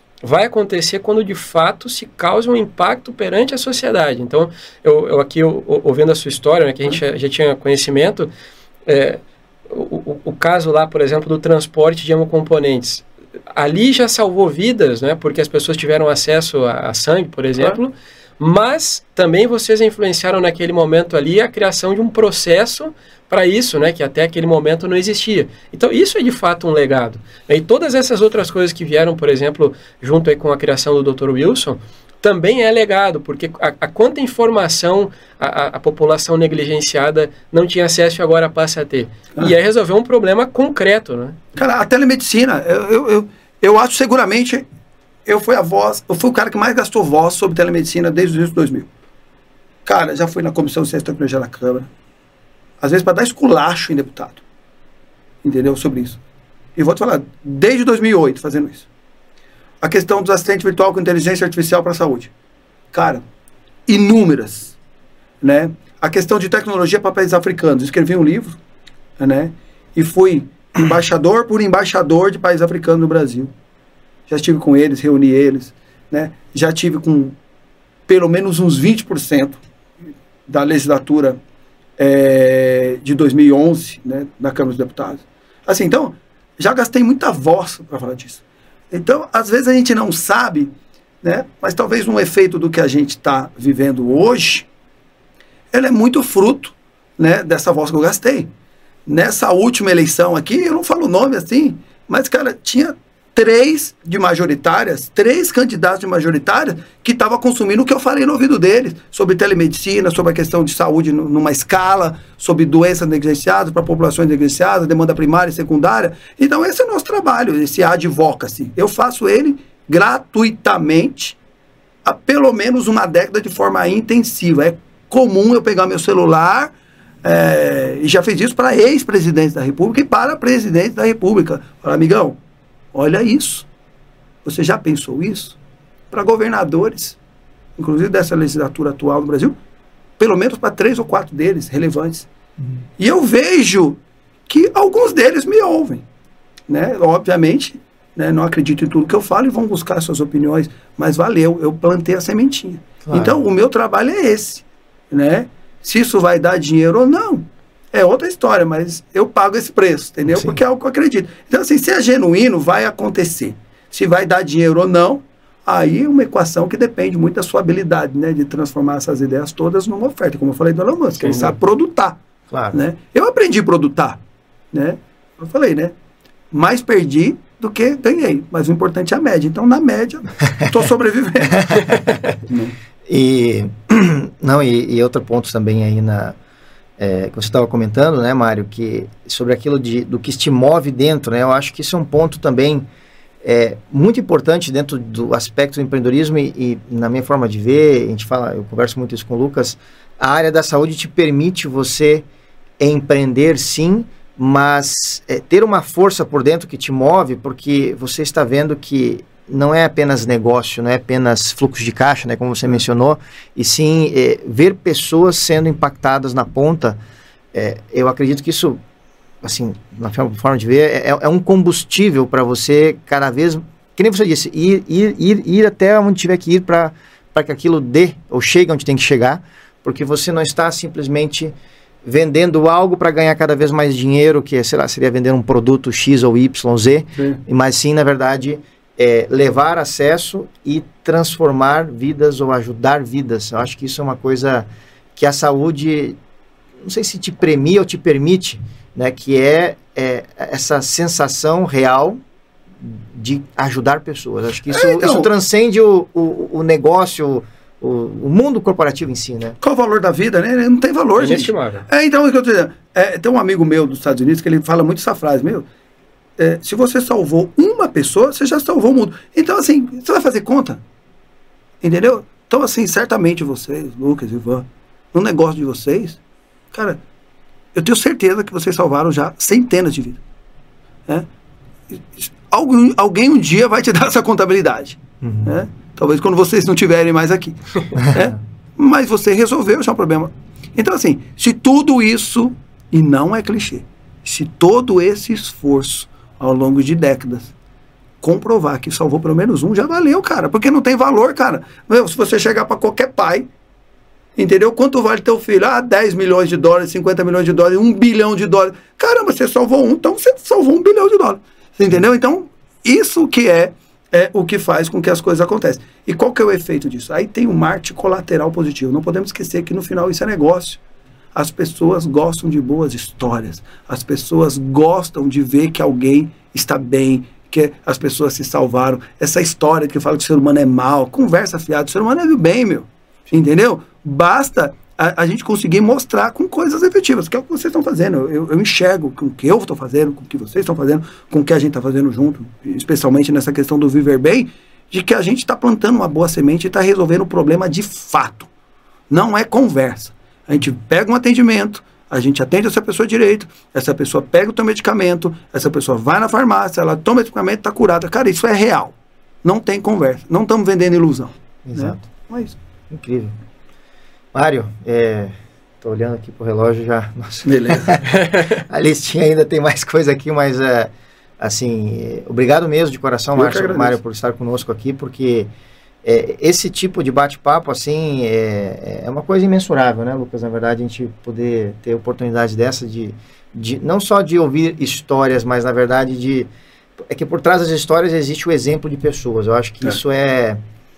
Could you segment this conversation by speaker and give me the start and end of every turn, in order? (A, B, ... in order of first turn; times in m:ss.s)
0:00.2-0:08.3 A
0:08.8-0:41.4 A
0:41.5-0:44.6 B
0:45.2-0:48.9 B
0:49.8-0:51.9 B
0:52.8-0:54.4 B
0:55.4-0:56.2 B
0:56.8-0:58.9 B
0:59.8-1:02.3 B
1:02.9-1:03.2 B
1:03.9-1:04.8 B
1:05.4-1:08.6 B
1:09.2-1:13.5 B
1:14.3-1:17.4 B
1:18.1-1:19.6 B
1:20.5-1:21.4 B
1:22.0-1:34.7 B
1:35.7-1:38.5 B
1:39.0-2:01.4 B
2:02.0-2:12.4 B
2:12.9-2:13.7 B
2:14.4-2:15.6 B
2:16.1-2:17.2 B
2:17.8-2:19.6 B
2:20.2-2:22.3 B
2:23.0-2:26.0 B
2:26.7-2:52.2 B
2:33.0-2:33.4 C
2:40.3-2:40.6 C
2:51.2-2:51.5 A
2:52.5-2:52.8 C
2:52.7-2:54.2 B
2:54.7-2:55.9 B
2:56.5-3:02.0 B
3:01.6-3:02.4 C
3:02.5-3:02.7 B
3:03.1-3:06.4 C
3:07.0-3:12.8 C
3:13.4-3:22.2 C
3:22.8-3:37.0 C
3:37.5-3:38.8 C
3:39.4-3:51.5 C
3:52.0-4:06.2 C
4:06.8-4:12.2 C
4:12.8-4:19.6 C
4:14.7-4:15.3 B
4:19.6-4:25.7 B
4:21.2-4:21.8 A
4:26.4-4:30.8 B
4:31.8-4:36.2 B
4:36.7-4:37.0 B
4:37.7-4:40.2 B
4:41.9-4:57.5 B
4:45.2-4:45.5 C
4:48.0-4:48.2 C
4:58.2-5:03.5 B
5:04.4-5:20.8 B
5:21.3-5:48.5 B
5:49.1-6:02.5 B
6:01.6-6:02.1 C
6:02.9-6:03.3 C
6:04.3-6:15.5 C
6:07.4-6:08.1 B
6:13.3-6:14.0 B
6:16.0-6:26.5 C
6:27.1-6:30.6 C